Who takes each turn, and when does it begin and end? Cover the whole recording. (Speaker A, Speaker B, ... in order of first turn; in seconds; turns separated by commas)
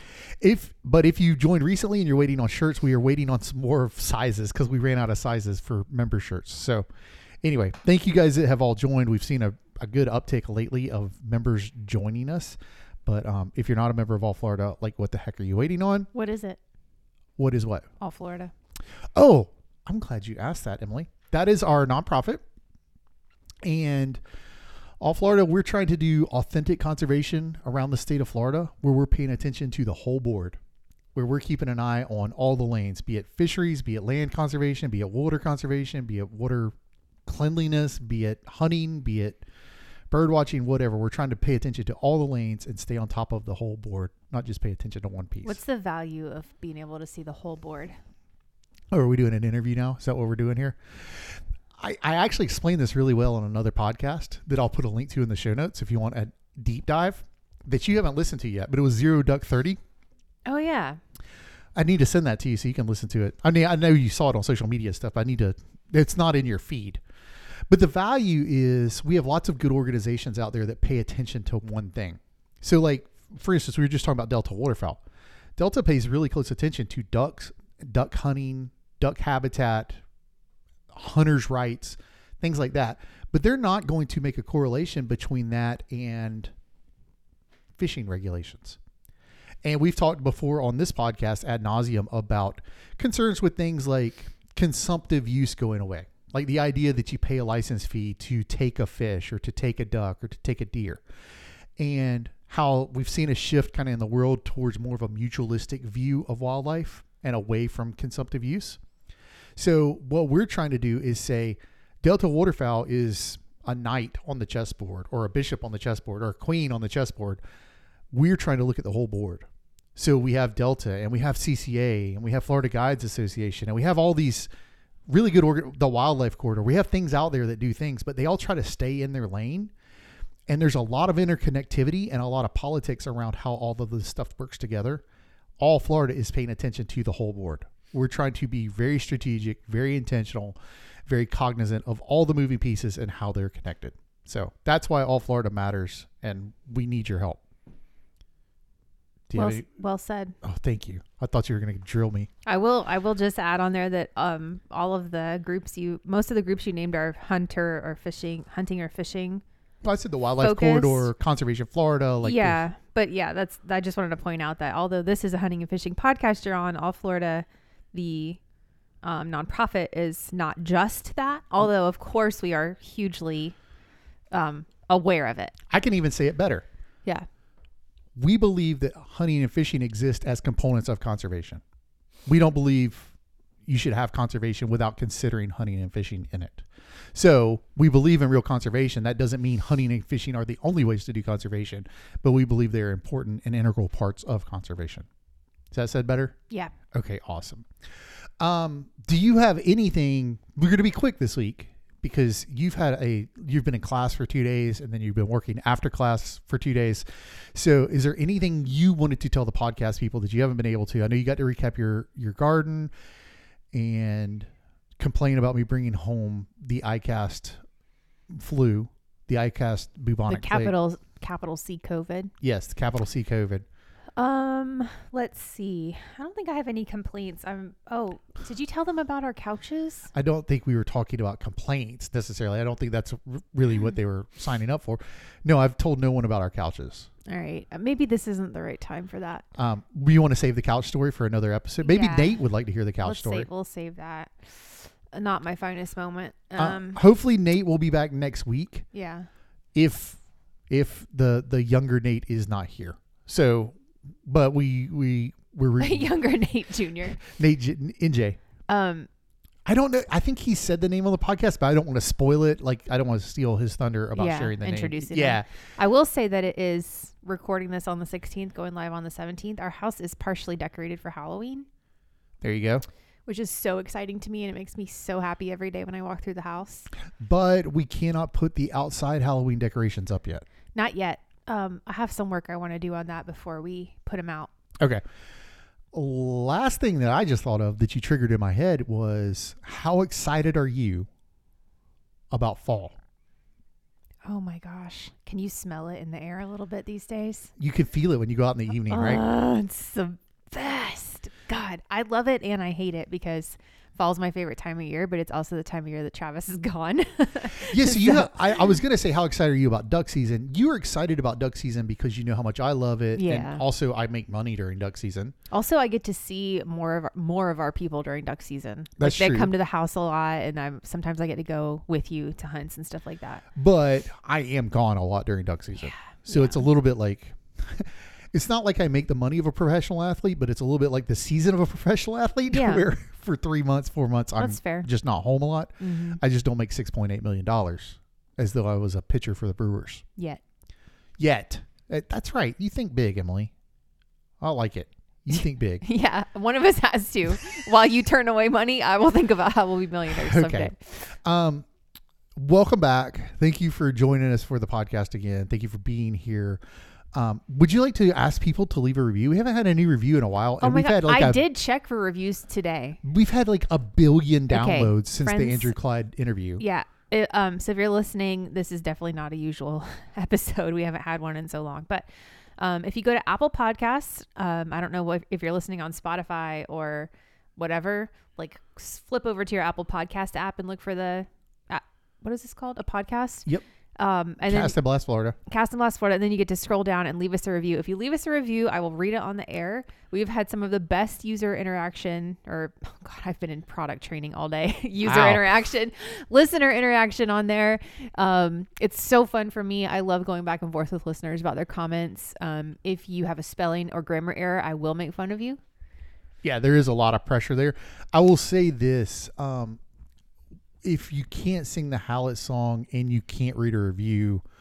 Speaker A: 0.4-6.8, Speaker A: 7.4-16.1, Speaker B: 16.1-16.6, Speaker A: 17.4-17.9, Speaker B: 18.0-18.5, Speaker A: 19.1-22.4, Speaker A: 23.6-24.2, Speaker A: 25.0-30.6, Speaker A: 31.1-36.7, Speaker A: 37.2-39.4, Speaker A: 40.1-45.6, Speaker B: 45.4-48.0, Speaker A: 48.9-59.8, Speaker B: 60.5-61.0, Speaker A: 61.7-67.0, Speaker A: 67.7-75.0, Speaker A: 75.6-80.0, Speaker A: 80.9-86.5, Speaker A: 87.8-88.8, Speaker A: 89.6-101.0, Speaker A: 101.8-108.8, Speaker A: 109.5-117.4, Speaker A: 118.1-124.5, Speaker A: 125.1-129.7, Speaker A: 130.5-135.0, Speaker A: 135.6-147.4, Speaker A: 149.3-149.6, Speaker B: 149.3-150.3, Speaker A: 150.4-152.3, Speaker B: 152.4-159.4, Speaker A: 159.8-162.6, Speaker B: 160.4-161.1, Speaker B: 162.2-168.4, Speaker B: 169.0-173.6, Speaker B: 174.3-175.5, Speaker A: 175.7-176.7, Speaker A: 178.2-181.6, Speaker A: 182.3-183.1, Speaker A: 183.7-195.1, Speaker A: 195.7-196.4, Speaker A: 196.9-197.7, Speaker A: 198.4-212.9, Speaker A: 213.7-217.6, Speaker A: 218.3-220.7, Speaker B: 220.3-222.3, Speaker A: 222.4-223.6, Speaker B: 224.2-230.1, Speaker A: 230.1-237.1, Speaker B: 237.3-239.4, Speaker A: 239.6-243.5, Speaker B: 241.8-242.4, Speaker B: 243.0-247.0, Speaker A: 246.6-248.9, Speaker B: 248.9-249.3, Speaker A: 249.7-256.1, Speaker B: 255.8-257.2, Speaker A: 257.2-258.4, Speaker B: 258.7-259.1, Speaker A: 259.6-265.4, Speaker B: 264.1-271.7, Speaker A: 272.4-272.8, Speaker B: 273.2-276.9, Speaker A: 277.2-280.4, Speaker B: 280.7-284.5, Speaker A: 285.9-291.1, Speaker A: 292.3-292.9, Speaker B: 294.2-297.5, Speaker A: 297.6-299.2, Speaker B: 298.9-308.6, Speaker A: 307.6-315.3, Speaker B: 313.1-313.6, Speaker B: 315.5-323.4, Speaker A: 319.0-319.5, Speaker A: 323.6-340.0, Speaker B: 325.8-326.6, Speaker B: 332.5-332.8, Speaker B: 334.4-334.9, Speaker B: 335.8-336.2, Speaker A: 341.2-343.5, Speaker A: 344.4-345.8, Speaker B: 345.8-350.8, Speaker A: 350.1-351.7, Speaker A: 352.4-356.6, Speaker A: 357.1-361.4, Speaker B: 360.6-363.0, Speaker A: 363.0-366.6, Speaker B: 364.5-365.7, Speaker B: 366.6-372.1, Speaker B: 372.6-383.5, Speaker B: 384.0-384.8, Speaker A: 384.4-385.4, Speaker B: 385.4-405.6, Speaker A: 395.0-395.5, Speaker A: 406.4-409.8, Speaker A: 410.8-414.4